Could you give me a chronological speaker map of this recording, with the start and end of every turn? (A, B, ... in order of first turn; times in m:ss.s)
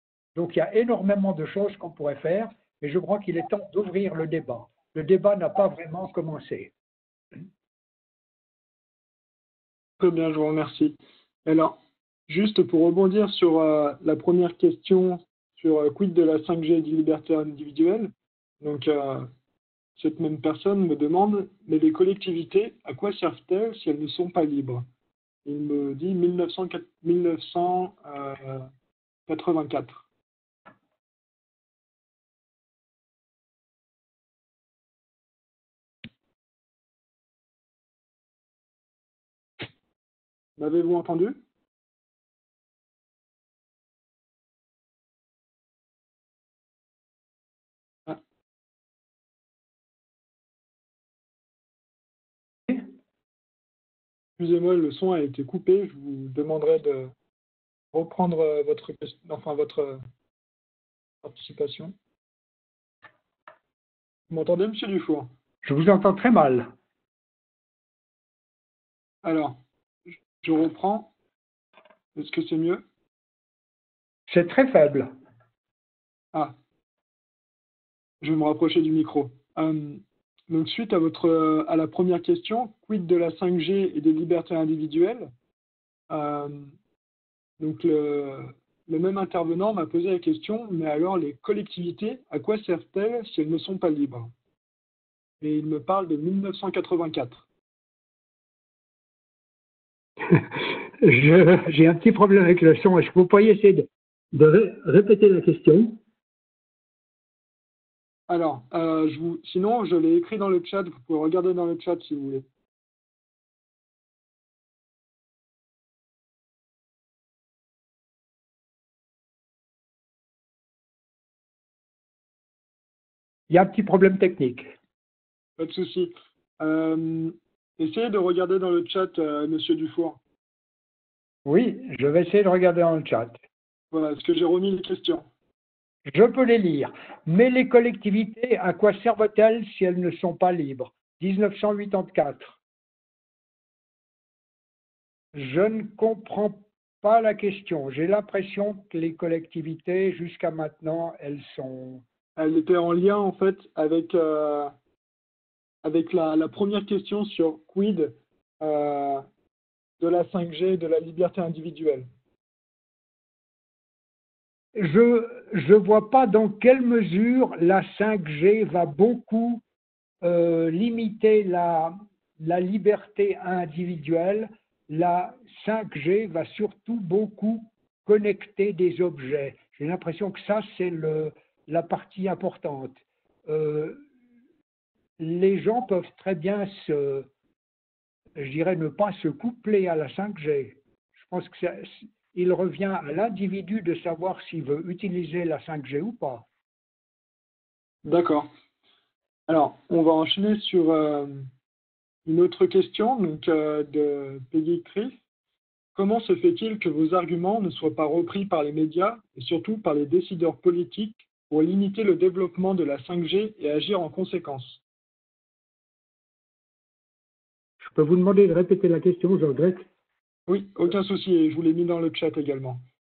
0:00.4-0:06.7 A
0:10.0-0:19.3 B
0:20.0-0:24.8 B
0:25.4-0:28.7 B
0:29.3-0:30.1 B
0:40.6-0:41.4 B
0:54.4-0:57.1 B
0:57.9-1:00.0 B
1:01.2-1:01.9 B
1:04.3-1:05.3 B
1:05.6-1:06.7 A
1:09.2-1:09.6 B
1:10.4-1:11.1 B
1:12.2-1:12.8 B
1:14.3-1:15.1 A
1:18.2-1:25.3 B
1:26.1-1:26.7 B
1:27.6-1:34.3 B
1:35.4-1:37.5 B
1:40.3-1:46.0 A
1:48.3-1:52.5 B
2:03.5-2:04.7 A
2:05.6-2:10.2 B
2:11.5-2:13.4 A
2:13.9-2:15.3 B
2:16.1-2:22.6 A
2:25.3-2:32.0 A
2:32.4-2:34.7 B
2:35.8-2:39.2 B
2:40.0-2:42.1 B
2:44.8-2:49.6 A
2:50.2-3:04.0 A
3:05.2-3:07.3 A
3:08.4-3:16.5 A
3:18.0-3:18.5 B
3:19.5-3:21.5 B
3:22.3-3:25.2 B
3:26.0-3:34.8 B
3:37.8-3:39.9 A
3:40.5-3:42.8 B